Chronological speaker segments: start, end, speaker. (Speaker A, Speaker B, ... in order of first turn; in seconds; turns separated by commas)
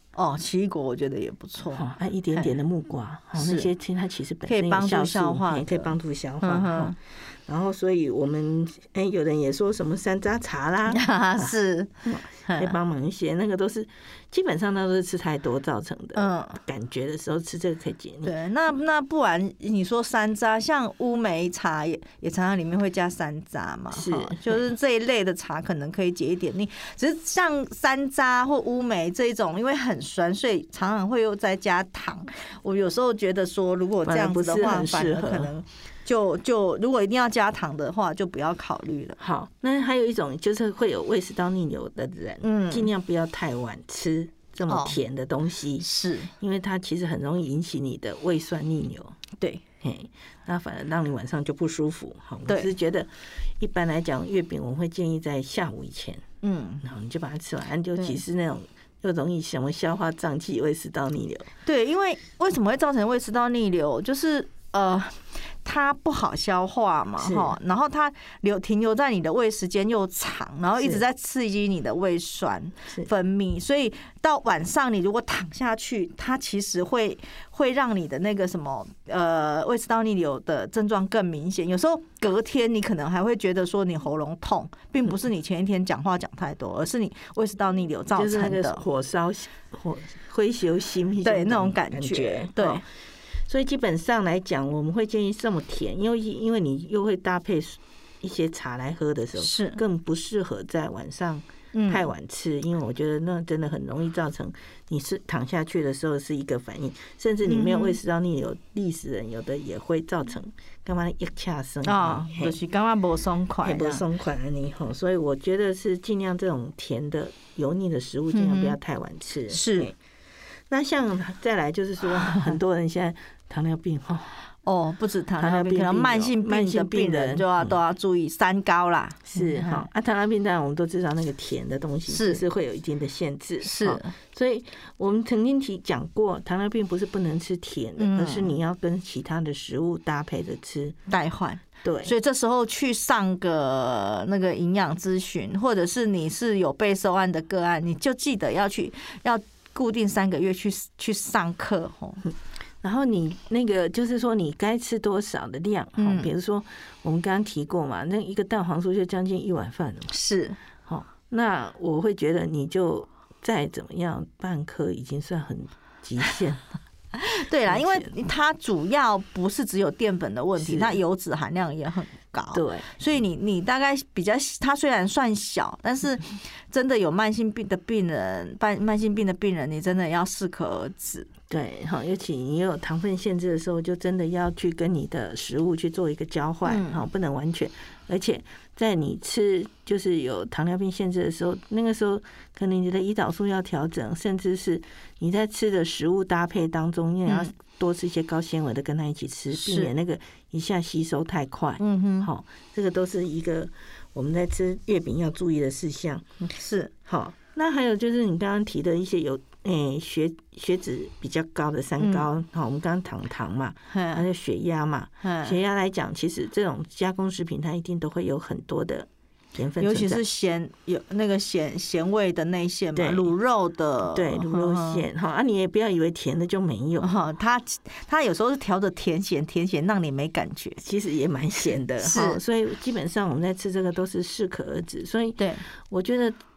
Speaker A: 0.2-2.5, Speaker B: 1.7-18.3, Speaker A: 3.4-3.7, Speaker A: 4.5-7.0, Speaker A: 10.9-11.9, Speaker A: 12.5-12.8, Speaker A: 16.1-16.6, Speaker A: 18.2-39.2, Speaker B: 23.9-24.6, Speaker B: 34.1-35.5, Speaker B: 39.2-49.2, Speaker A: 42.4-42.9, Speaker A: 44.7-45.0, Speaker A: 45.8-46.3, Speaker B: 49.8-56.2, Speaker A: 56.4-56.8, Speaker B: 56.8-61.5, Speaker A: 61.6-88.8, Speaker B: 67.2-67.6, Speaker B: 88.1-92.8, Speaker A: 91.2-92.8, Speaker B: 93.5-112.6, Speaker A: 99.4-99.8, Speaker A: 101.7-102.1, Speaker A: 107.5-108.0, Speaker A: 111.8-114.0, Speaker B: 113.6-120.0, Speaker A: 118.3-118.8, Speaker A: 119.5-119.9, Speaker B: 120.7-124.3, Speaker A: 124.7-129.9, Speaker B: 125.4-127.8, Speaker B: 129.3-141.0, Speaker A: 132.1-132.4, Speaker A: 133.6-134.1, Speaker A: 138.0-138.5, Speaker A: 141.1-152.2, Speaker B: 141.8-142.1, Speaker B: 152.3-160.1, Speaker A: 156.0-156.3, Speaker A: 160.1-160.6, Speaker B: 160.9-166.7, Speaker A: 167.1-181.3, Speaker B: 167.7-168.1, Speaker B: 170.6-171.0, Speaker B: 172.5-172.9, Speaker B: 181.5-206.2, Speaker A: 186.7-187.0, Speaker A: 197.3-197.5, Speaker A: 199.5-199.9, Speaker A: 201.8-202.3, Speaker A: 206.4-206.9, Speaker B: 207.1-220.2, Speaker A: 212.0-212.3, Speaker A: 213.9-214.2, Speaker A: 215.2-215.6, Speaker A: 219.8-225.0, Speaker B: 222.9-223.3, Speaker B: 224.1-227.1, Speaker A: 227.0-230.8, Speaker B: 230.8-236.4, Speaker A: 232.0-232.4, Speaker A: 235.4-235.6